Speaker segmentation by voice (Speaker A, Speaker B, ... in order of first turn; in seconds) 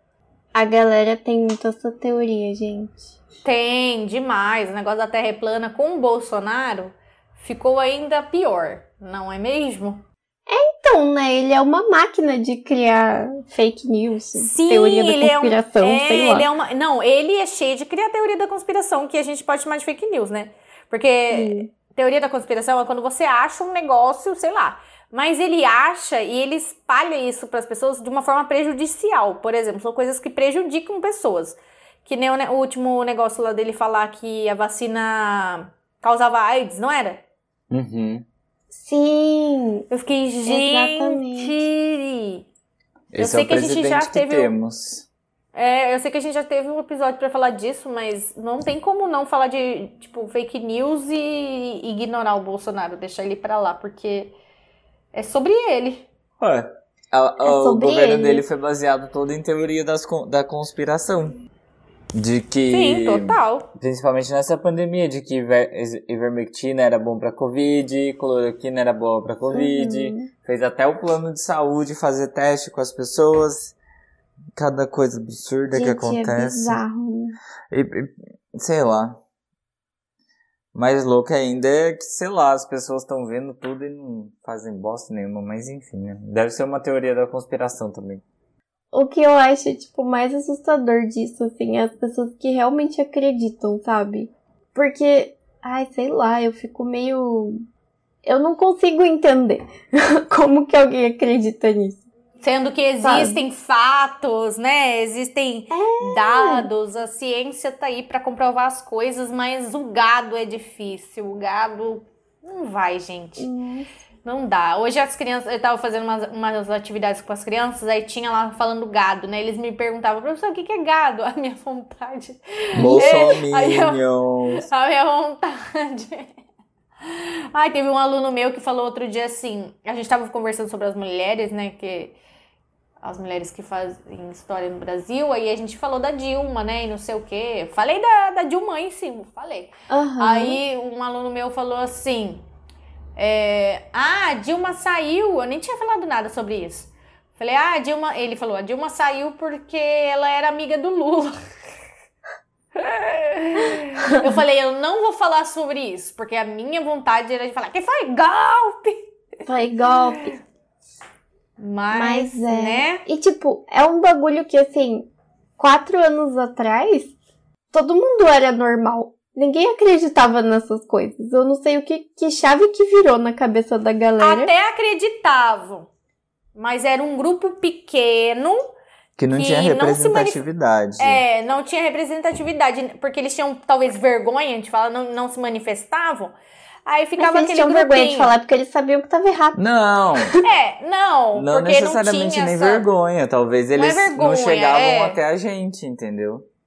Speaker A: 0.5-3.1, 10.5-16.5, 21.3-21.7, 38.7-39.9, 40.5-41.6, 57.4-58.4, 69.5-70.3, 75.7-77.4, 88.9-97.6, 98.2-102.0, 103.0-103.4, 105.7-106.7, 113.4-113.9, 122.7-123.3, 139.9-140.6, 159.4-160.3, 161.9-167.1, 167.7-174.5, 187.2-189.6, 190.2-190.4
Speaker B: 3.4-10.0, 14.3-37.2, 39.9-42.4, 43.2-44.5, 45.5-54.4, 55.1-56.0, 62.7-63.7, 102.4-113.5, 114.2-124.0, 124.5-126.3, 127.0-132.2, 133.0-142.4, 143.2-151.4, 152.7-159.0, 159.9-160.4, 161.6-163.0, 174.2-175.9, 176.5-178.6, 179.3-180.4, 181.0-186.3, 186.8-188.3, 190.4-192.8, 193.8-195.2
Speaker C: 37.7-38.2, 43.1-45.1, 56.4-61.4, 62.1-73.7, 74.5-76.8, 77.7-79.2, 80.7-88.2, 122.8-124.7, 179.2-181.2, 189.5-190.3, 191.3-196.5